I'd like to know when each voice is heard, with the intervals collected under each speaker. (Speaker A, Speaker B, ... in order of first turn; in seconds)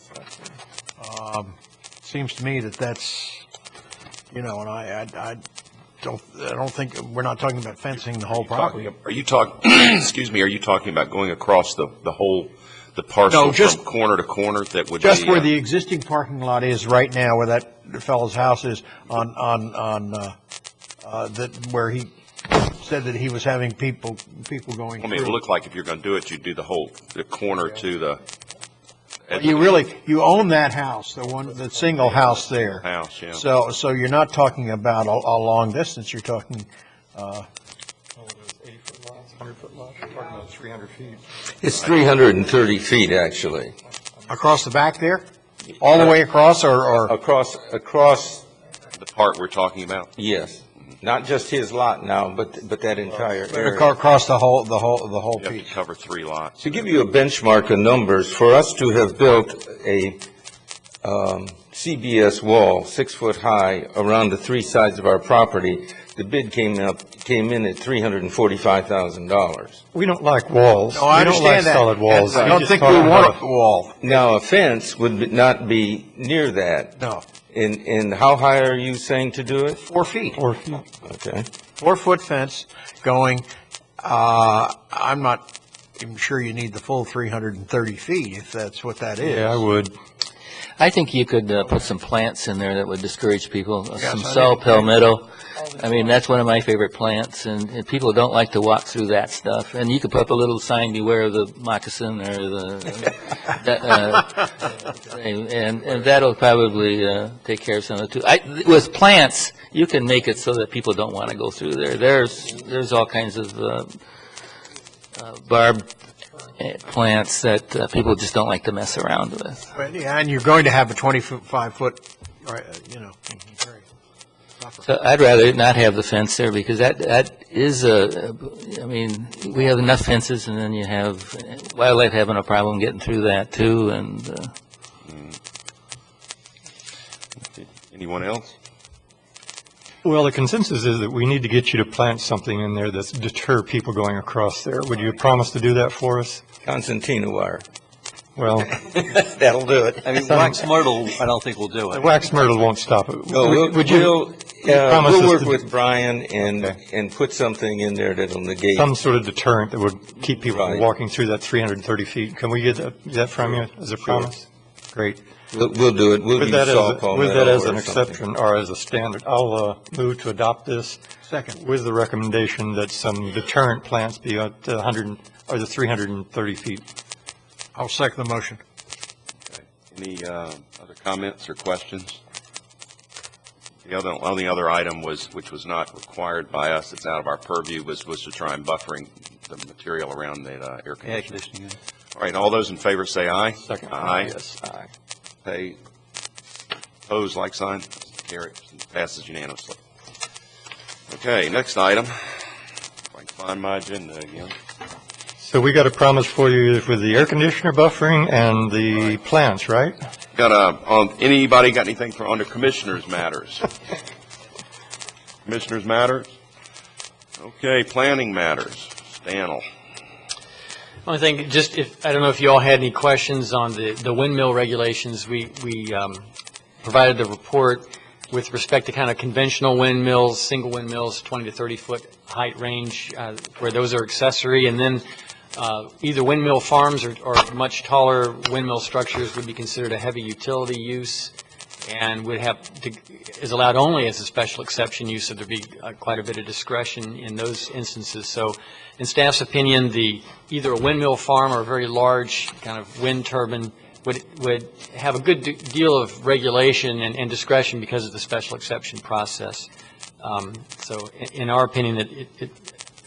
Speaker A: 1.0-3.4, 4.3-5.4, 6.0-8.8, 13.3-13.8, 15.0-20.4, 21.0-25.4, 29.3-37.5, 44.3-47.1, 53.5-55.7, 70.9-74.0, 77.0-77.2, 79.8-80.4, 81.8-83.5, 84.0-85.4, 86.0-89.7, 94.0-94.9, 119.7-123.8, 124.6-124.8, 171.2-171.6, 177.7-178.6
Speaker B: 8.4-15.5, 25.0-28.2, 29.3-29.7, 32.1-33.5, 49.0-50.1, 55.4-56.9, 135.1-135.4, 137.5-138.6, 179.5-182.2, 183.8-191.4, 192.1-194.3, 195.4-195.8, 197.1-199.8, 201.1-202.4, 203.1-204.5, 210.3-213.6, 215.4-216.3, 217.4-219.6
Speaker C: 38.2-41.2, 69.9-73.4, 80.3-80.8, 89.2-89.9, 140.0-146.4, 148.4-148.7, 150.2-150.7, 151.9-155.6, 158.7-165.2, 166.3-171.0, 171.5-176.8, 193.6-194.9, 205.4-210.0
Speaker D: 41.6-43.7, 47.1-48.5, 50.2-53.9, 56.6-60.2, 61.0-69.8, 72.3-72.6, 74.0-77.0, 77.5-79.8, 81.0-81.5, 146.6-147.6, 148.6-150.1, 153.3-158.9, 160.4-160.9, 164.0-164.3, 165.5-168.2
Speaker E: 90.8-113.9, 115.2-115.9, 116.6-119.6, 124.8-134.5
Speaker F: 150.0-152.3, 191.0-191.8
Speaker G: 221.0-226.3, 226.8-235.0, 235.6-241.3, 241.8-259.7, 260.2-262.6